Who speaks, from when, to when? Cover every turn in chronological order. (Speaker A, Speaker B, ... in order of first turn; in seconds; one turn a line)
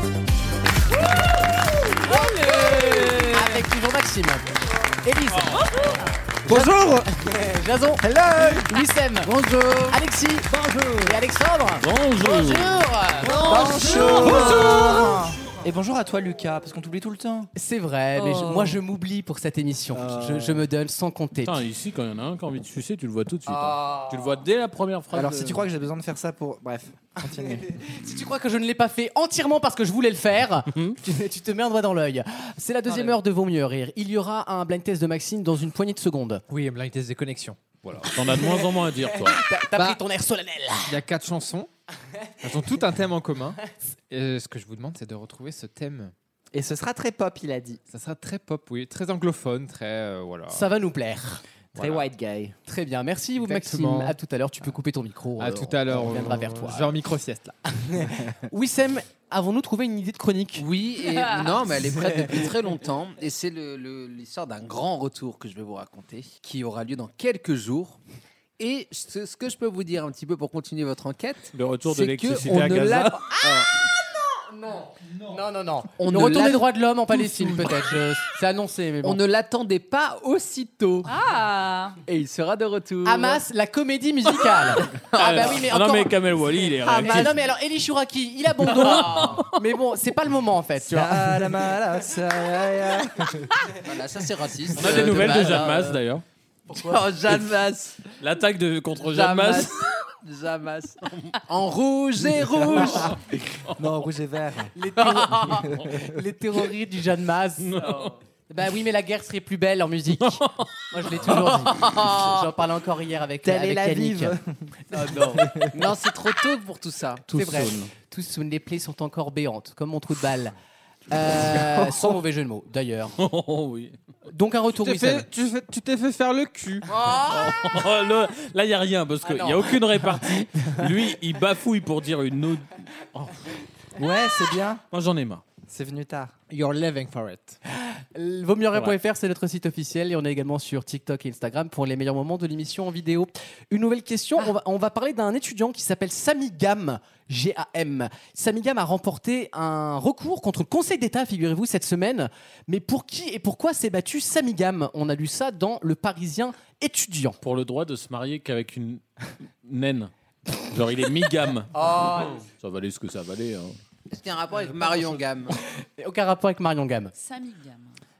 Speaker A: 2.1-4.4
Speaker B: 2.1-3.5
Speaker A: 5.0-5.6
Speaker B: 5.6-6.0
Speaker A: 6.5-9.3
Speaker C: 8.1-8.6
Speaker D: 9.2-10.0
Speaker A: 9.9-10.5
Speaker A: 11.0-14.5
Speaker E: 11.8-12.8
Speaker C: 13.4-17.5
Speaker A: 17.6-21.6
Speaker B: 18.2-18.7
Speaker C: 19.9-20.6
Speaker E: 21.4-25.7
Speaker C: 25.1-27.7
Speaker A: 27.4-36.4
Speaker F: 36.5-38.1
Speaker E: 38.0-39.4
Speaker A: 38.2-41.0
Speaker F: 40.9-41.7
Speaker F: 42.4-43.6
Speaker F: 44.1-46.1
Speaker C: 46.5-47.8
Speaker F: 47.9-50.6
Speaker A: 50.5-51.4
Speaker F: 51.7-52.1
Speaker C: 51.8-52.5
Speaker A: 52.6-56.9
Speaker F: 53.4-54.1
Speaker F: 55.4-57.5
Speaker A: 57.9-60.6
Speaker D: 60.5-68.0
Speaker B: 61.1-61.5
Speaker A: 62.0-62.4
Speaker D: 68.6-73.7
Speaker E: 71.5-73.2
Speaker A: 75.3-79.2
Speaker D: 76.0-77.6
Speaker D: 79.0-81.1
Speaker B: 81.0-82.0
Speaker D: 82.0-83.4
Speaker A: 83.0-86.1
Speaker E: 85.1-87.4
Speaker A: 86.8-91.5
Speaker E: 88.7-89.5
Speaker C: 90.8-93.5
Speaker D: 93.8-95.9
Speaker E: 94.7-96.2
Speaker A: 94.9-95.8
Speaker D: 96.7-98.0
Speaker E: 98.2-99.7
Speaker D: 99.0-103.1
Speaker C: 102.6-103.2
Speaker C: 103.8-106.0
Speaker A: 104.8-107.8
Speaker E: 107.6-108.1
Speaker A: 108.5-114.3
Speaker E: 110.2-110.7
Speaker D: 111.7-112.2
Speaker C: 113.4-114.5
Speaker D: 114.9-117.9
Speaker C: 115.3-115.7
Speaker A: 117.3-120.5
Speaker A: 121.1-123.1
Speaker E: 123.2-124.0
Speaker A: 124.3-125.3
Speaker F: 124.8-126.8
Speaker A: 127.0-127.5
Speaker E: 127.1-133.4
Speaker A: 129.2-130.1
Speaker C: 134.0-134.8
Speaker E: 134.9-135.4
Speaker C: 135.7-136.3
Speaker F: 136.5-137.6
Speaker A: 138.1-157.4
Speaker E: 157.4-159.0
Speaker E: 159.6-163.7
Speaker A: 161.8-162.4
Speaker D: 164.1-165.5
Speaker A: 166.0-167.1
Speaker B: 167.1-168.0